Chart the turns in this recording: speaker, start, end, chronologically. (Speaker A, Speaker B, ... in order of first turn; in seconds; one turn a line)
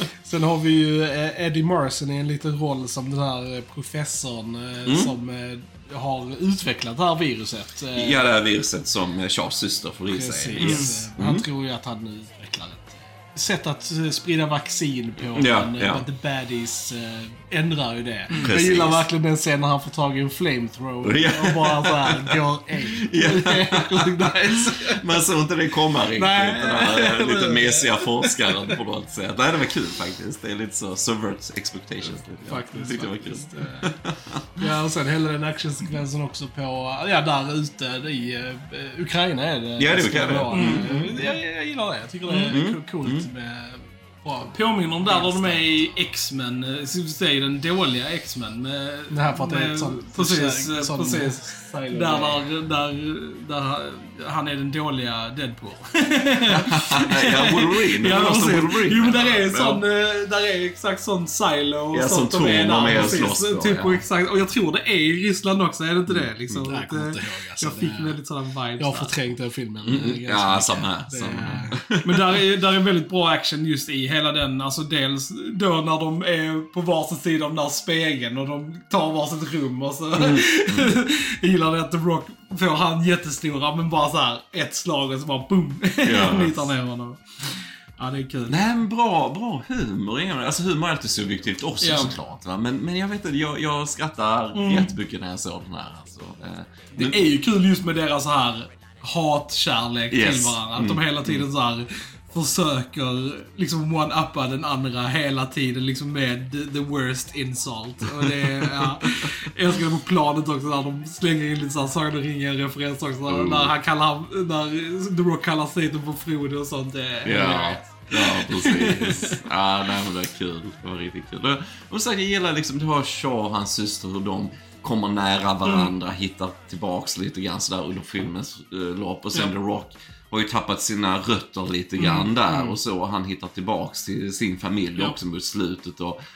Speaker A: 0.2-8.2
Speaker B: 4.8-5.1
Speaker B: 7.9-11.4
Speaker A: 10.1-25.2
Speaker C: 10.6-11.1
Speaker B: 15.3-16.0
Speaker C: 18.3-18.5
Speaker B: 18.4-19.0
Speaker B: 21.0-34.7
Speaker A: 26.1-28.7
Speaker A: 32.4-33.9
Speaker C: 32.5-33.1
Speaker A: 34.6-45.7
Speaker B: 39.8-41.0
Speaker C: 40.5-41.1
Speaker C: 42.3-42.5
Speaker B: 42.5-43.3
Speaker C: 44.5-69.1
Speaker A: 49.1-52.4
Speaker B: 56.5-59.8
Speaker B: 61.9-64.0
Speaker A: 62.9-63.2
Speaker B: 66.1-66.7
Speaker A: 66.6-68.2
Speaker A: 68.8-71.8
Speaker B: 69.8-72.4
Speaker C: 72.0-88.6
Speaker B: 80.1-81.0
Speaker B: 86.0-86.7
Speaker B: 88.5-97.3
Speaker C: 91.8-92.1
Speaker C: 94.5-94.9
Speaker C: 96.9-119.4
Speaker B: 100.1-101.5
Speaker B: 108.0-109.3
Speaker B: 113.3-113.7
Speaker B: 117.2-136.2
Speaker C: 125.6-125.9
Speaker C: 132.0-132.8